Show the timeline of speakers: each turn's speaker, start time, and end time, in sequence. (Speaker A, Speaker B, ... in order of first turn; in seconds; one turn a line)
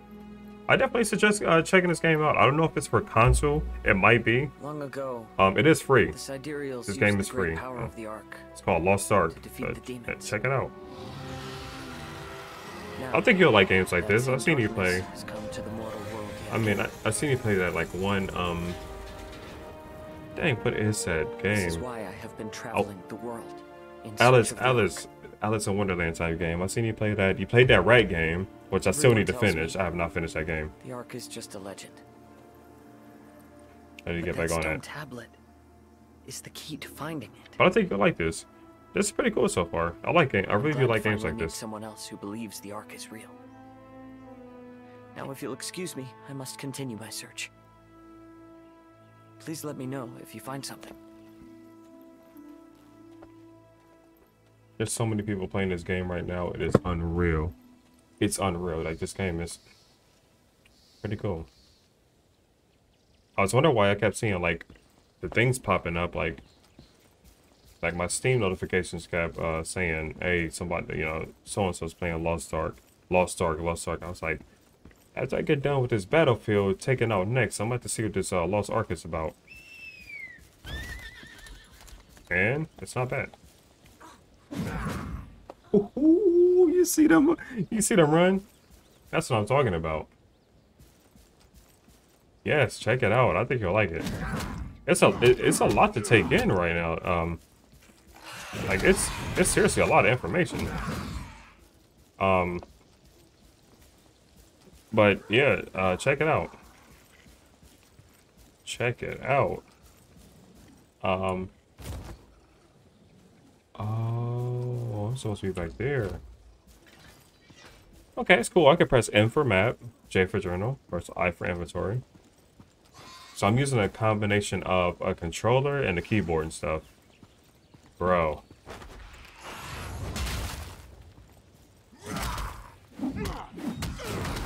Speaker A: 0.7-4.5
Speaker B: 4.6-5.4
Speaker A: 5.4-6.2
Speaker B: 6.1-8.5
Speaker A: 6.8-7.9
Speaker A: 8.5-10.7
Speaker B: 9.3-10.4
Speaker B: 13.0-16.9
Speaker A: 13.1-15.1
Speaker A: 16.5-18.8
Speaker A: 20.3-21.8
Speaker B: 21.5-25.0
Speaker A: 24.2-30.7
Speaker B: 28.8-29.8
Speaker B: 30.8-32.0
Speaker A: 34.0-34.8
Speaker B: 34.2-35.4
Speaker B: 36.2-37.6
Speaker A: 37.6-41.6
Speaker B: 40.5-43.4
Speaker B: 45.1-47.5
Speaker B: 49.4-51.0
Speaker A: 54.8-57.5
Speaker A: 58.2-59.6
Speaker A: 61.0-61.5
Speaker A: 63.4-64.7
Speaker A: 65.2-66.4
Speaker A: 67.8-74.4
Speaker A: 75.1-79.3
Speaker A: 82.3-83.3
Speaker A: 85.7-88.5
Speaker A: 89.1-90.1
Speaker A: 92.4-94.1
Speaker A: 94.8-97.4
Speaker A: 98.7-100.7
Speaker A: 102.2-102.7
Speaker A: 104.9-106.5
Speaker A: 108.6-109.6
Speaker A: 111.0-111.5
Speaker A: 113.8-116.2
Speaker A: 118.2-122.0
Speaker A: 123.3-126.9
Speaker A: 128.0-128.4